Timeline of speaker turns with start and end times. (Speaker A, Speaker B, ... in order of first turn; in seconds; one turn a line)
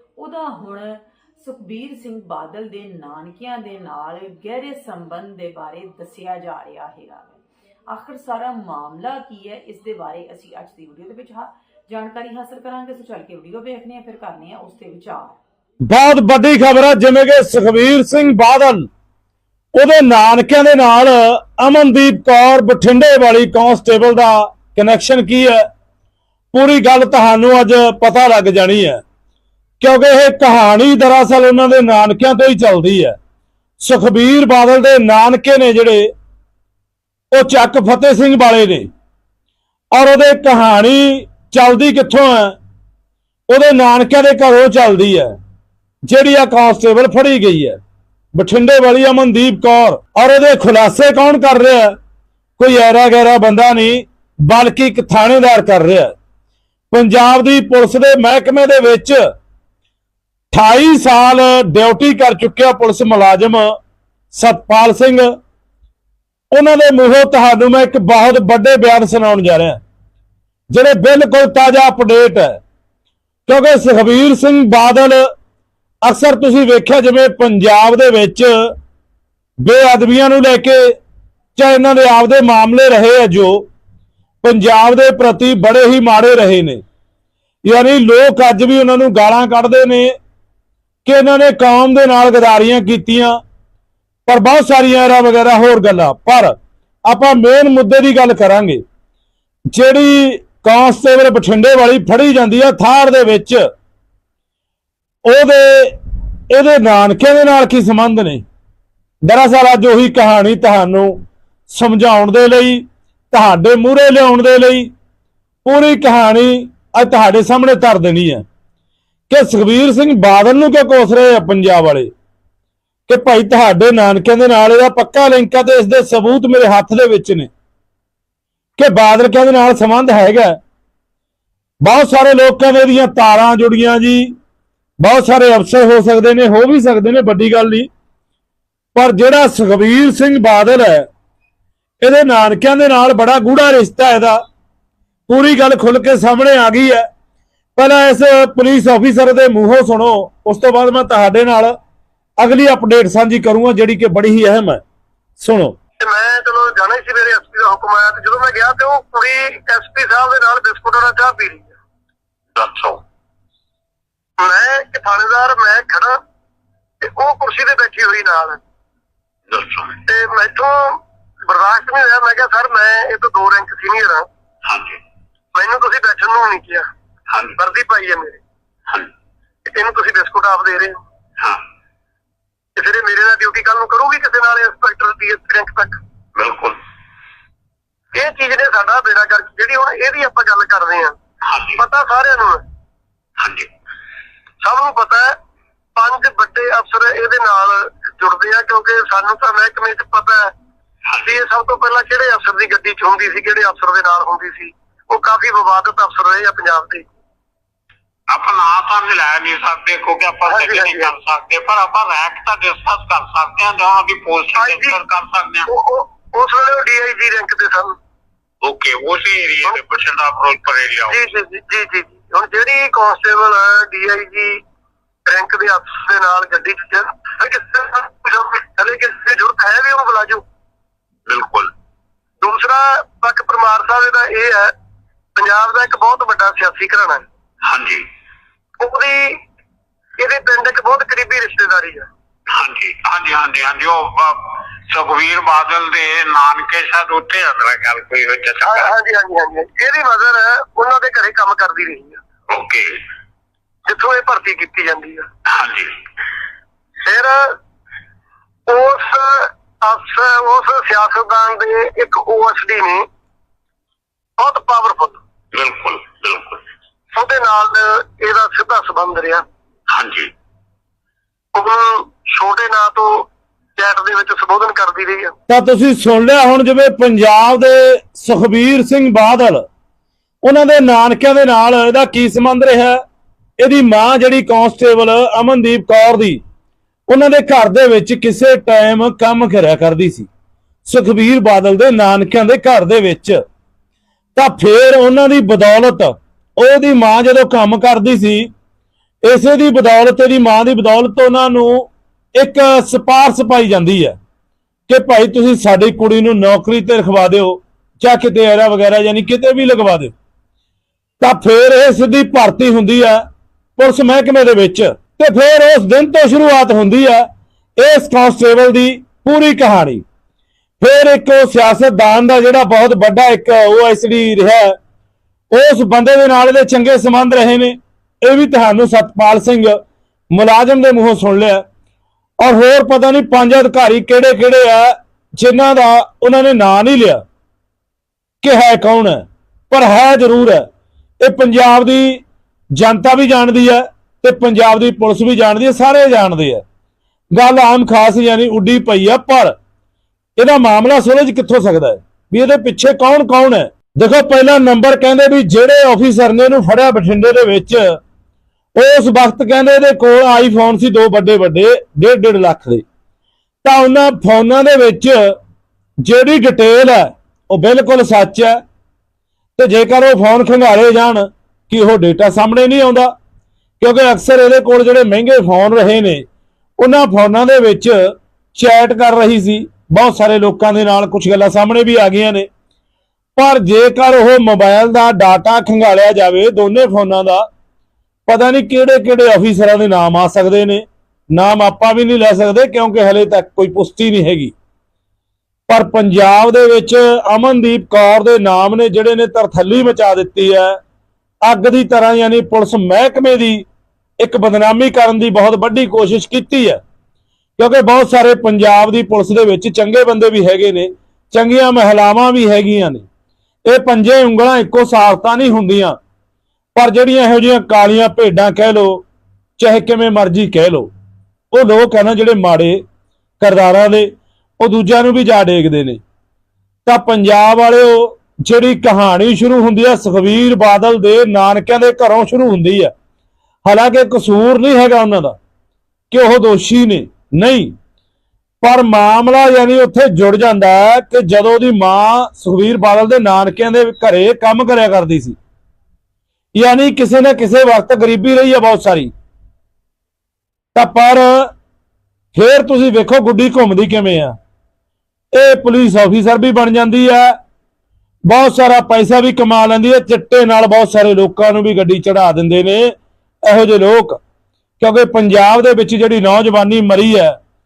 Speaker A: 0.2-15.4
Speaker B: 15.8-18.9
Speaker B: 19.7-25.7
Speaker B: 26.5-29.0
Speaker B: 29.8-33.2
Speaker B: 33.8-36.1
Speaker B: 37.3-38.9
Speaker B: 39.9-42.6
Speaker B: 43.5-45.4
Speaker B: 46.0-47.8
Speaker B: 48.3-52.0
Speaker B: 52.6-56.1
Speaker B: 56.9-59.2
Speaker B: 60.5-63.8
Speaker B: 64.3-65.3
Speaker B: 66.5-69.8
Speaker B: 70.7-72.6
Speaker B: 73.5-75.3
Speaker B: 76.0-78.7
Speaker B: 79.6-81.0
Speaker B: 81.6-83.7
Speaker B: 84.4-86.8
Speaker B: 87.7-90.2
Speaker B: 91.0-93.4
Speaker B: 94.3-98.8
Speaker B: 99.7-103.7
Speaker B: 105.2-108.4
Speaker B: 109.2-114.9
Speaker B: 115.7-118.4
Speaker B: 119.3-122.1
Speaker B: 123.1-127.5
Speaker B: 128.8-130.6
Speaker B: 131.8-134.3
Speaker B: 135.0-137.9
Speaker B: 138.9-141.1
Speaker B: 142.0-144.4
Speaker B: 145.3-147.1
Speaker B: 147.8-151.8
Speaker B: 152.4-154.8
Speaker B: 155.4-155.8
Speaker C: 156.0-161.8
Speaker D: 162.6-163.0
Speaker C: 164.4-166.2
Speaker C: 167.0-168.6
Speaker D: 169.5-170.0
Speaker C: 170.1-174.3
Speaker D: 174.7-175.0
Speaker C: 175.6-176.9
Speaker D: 177.3-177.6
Speaker C: 177.6-178.4
Speaker C: 179.7-181.0
Speaker C: 182.8-186.0
Speaker D: 186.4-186.8
Speaker C: 188.1-191.2
Speaker D: 191.4-191.8
Speaker C: 191.8-192.6
Speaker D: 193.4-193.7
Speaker C: 194.6-195.4
Speaker C: 196.0-200.5
Speaker D: 201.1-201.4
Speaker C: 201.2-207.1
Speaker D: 208.3-215.7
Speaker C: 210.5-211.1
Speaker C: 214.6-215.0
Speaker C: 215.7-217.9
Speaker D: 218.6-221.2
Speaker C: 221.1-224.6
Speaker C: 225.3-230.4
Speaker D: 231.3-231.7
Speaker C: 232.4-234.7
Speaker C: 235.4-237.2
Speaker D: 237.6-238.1
Speaker C: 238.8-239.4
Speaker C: 240.2-242.1
Speaker D: 242.5-248.9
Speaker C: 248.7-252.2
Speaker D: 252.5-253.0
Speaker C: 253.9-255.3
Speaker D: 255.5-255.9
Speaker C: 257.0-257.6
Speaker C: 258.7-263.1
Speaker C: 264.4-265.2
Speaker D: 265.5-266.6
Speaker C: 267.1-269.4
Speaker D: 269.9-270.3
Speaker C: 271.5-275.3
Speaker B: 275.5-279.6
Speaker B: 280.4-283.0
Speaker B: 283.6-286.4
Speaker B: 287.1-290.3
Speaker B: 290.9-293.4
Speaker B: 294.4-298.5
Speaker B: 299.2-304.2
Speaker B: 304.9-310.1
Speaker B: 311.2-313.2
Speaker B: 313.8-317.3
Speaker B: 317.8-320.0
Speaker B: 320.8-324.8
Speaker B: 325.5-329.8
Speaker B: 330.3-331.6
Speaker B: 332.4-337.2
Speaker B: 338.4-340.7
Speaker B: 341.2-346.6
Speaker B: 347.3-349.6
Speaker B: 350.4-358.0
Speaker B: 358.8-362.8
Speaker B: 363.6-365.4
Speaker B: 366.0-368.6
Speaker B: 369.6-373.1
Speaker B: 373.8-376.2
Speaker B: 376.8-382.5
Speaker B: 383.4-387.5
Speaker B: 388.3-394.5
Speaker B: 395.7-400.8
Speaker B: 401.4-403.7
Speaker B: 404.2-406.8
Speaker B: 407.6-413.1
Speaker B: 413.6-416.0
Speaker B: 416.8-419.0
Speaker B: 419.6-420.9
Speaker B: 421.5-422.8
Speaker B: 423.4-426.0
Speaker B: 426.9-432.9
Speaker B: 433.6-435.4
Speaker B: 436.1-437.7
Speaker B: 438.6-445.4
Speaker B: 446.6-449.1
Speaker B: 450.8-451.5
Speaker B: 452.3-454.4
Speaker B: 455.3-457.4
Speaker B: 458.2-464.2
Speaker B: 464.8-467.4